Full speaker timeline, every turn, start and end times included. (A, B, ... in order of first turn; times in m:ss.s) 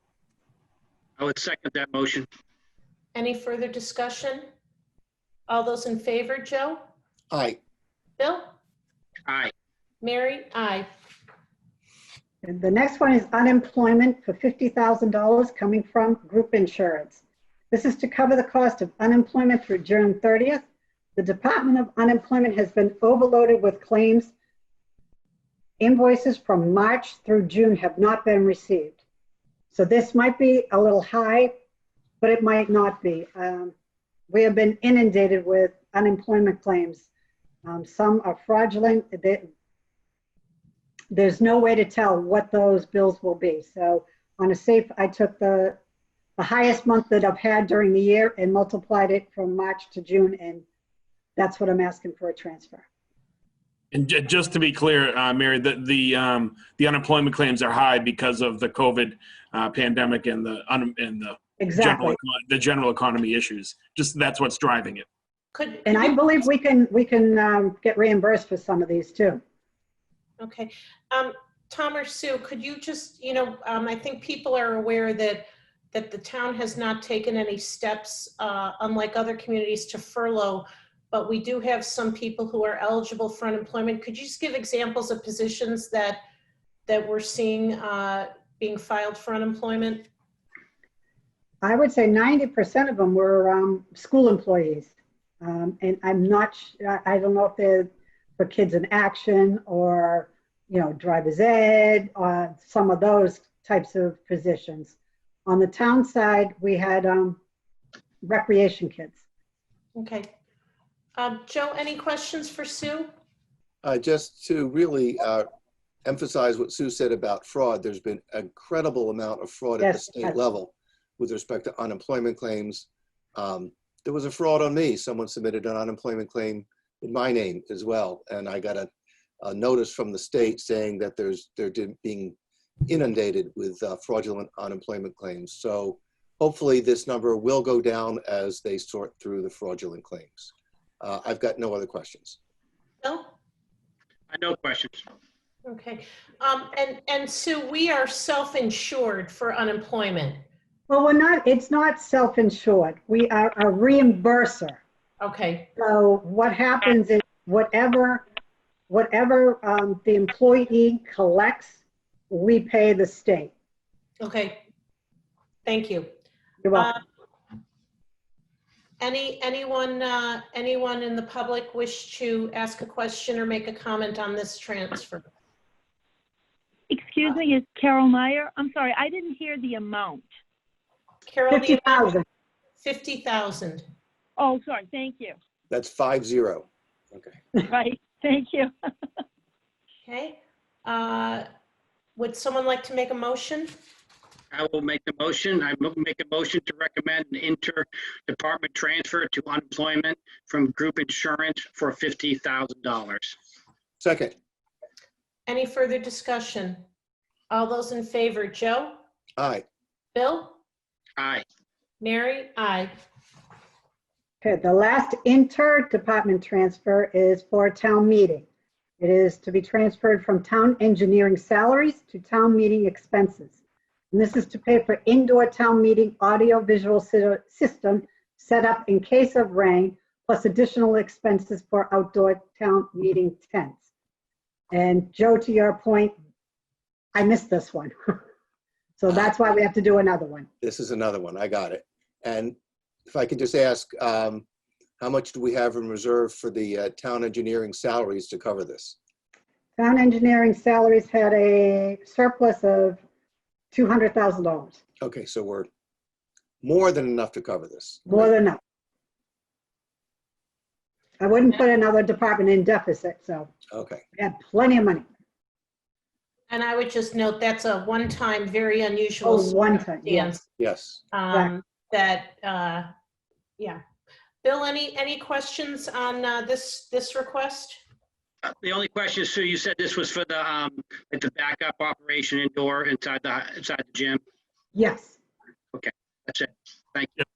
0:01.2-0:02.3 A
0:03.1-0:04.4 B
0:05.5-0:06.8 B
0:07.3-0:07.6 C
0:08.2-0:08.5 B
0:09.3-0:09.5 A
0:10.0-0:10.9 B
0:12.4-0:20.6 D
0:21.2-0:24.3 D
0:25.8-0:29.0 D
0:29.7-0:31.5 D
0:32.2-0:33.7 D
0:34.3-0:37.0 D
0:37.6-0:39.5 D
0:41.1-0:45.8 D
0:46.4-0:50.6 D
0:51.4-0:52.8 D
0:53.9-1:05.1 E
1:01.6-1:02.2 D
1:05.5-1:06.2 B
1:05.8-1:09.4 D
1:10.4-1:26.2 B
1:26.9-1:30.1 B
1:31.6-1:44.9 D
1:45.4-1:47.4 D
1:48.2-1:49.2 D
1:50.0-1:50.3 B
1:51.2-1:53.1 B
1:53.8-1:55.5 C
1:56.0-2:08.9 C
1:59.8-2:00.4 D
2:09.4-2:12.4 C
2:12.9-2:22.4 C
2:23.0-2:23.3 B
2:24.3-2:25.0 A
2:25.6-2:30.4 B
2:30.9-2:34.8 D
2:35.2-2:35.7 B
2:35.8-2:38.2 D
2:38.9-2:41.8 D
2:42.3-2:43.5 D
2:44.2-2:44.6 B
2:45.6-2:46.1 B
2:46.6-2:46.9 D
2:46.7-2:47.0 B
2:49.0-2:55.2 B
2:56.9-3:00.2 F
3:01.3-3:02.2 B
3:01.5-3:02.2 D
3:02.8-3:03.8 B
3:04.4-3:05.4 F
3:05.7-3:07.3 C
3:07.6-3:08.7 F
3:10.0-3:11.4 B
3:12.2-3:13.7 B
3:14.5-3:23.3 A
3:24.0-3:24.3 C
3:25.5-3:26.8 B
3:27.5-3:29.0 B
3:29.4-3:29.6 C
3:30.1-3:30.6 B
3:31.2-3:31.4 A
3:32.0-3:32.9 B
3:34.4-3:38.4 D
3:39.0-3:43.5 D
3:44.1-3:53.8 D
3:54.7-3:56.1 D
3:57.1-3:58.2 D
3:59.0-4:00.5 D
4:00.6-4:02.6 C
4:03.1-4:04.4 C
4:05.0-4:09.0 C
4:09.8-4:13.0 D
4:13.7-4:14.8 D
4:15.0-4:15.7 C
4:16.6-4:18.3 C
4:18.1-4:18.6 D
4:21.2-4:23.5 D
4:23.7-4:24.0 C
4:24.2-4:25.0 D
4:26.5-4:30.5 B
4:29.2-4:30.3 D
4:30.6-4:31.0 C
4:31.1-4:32.9 B
4:34.4-4:37.8 B
4:38.4-4:44.2 A
4:44.7-4:45.2 D
4:45.7-4:47.1 A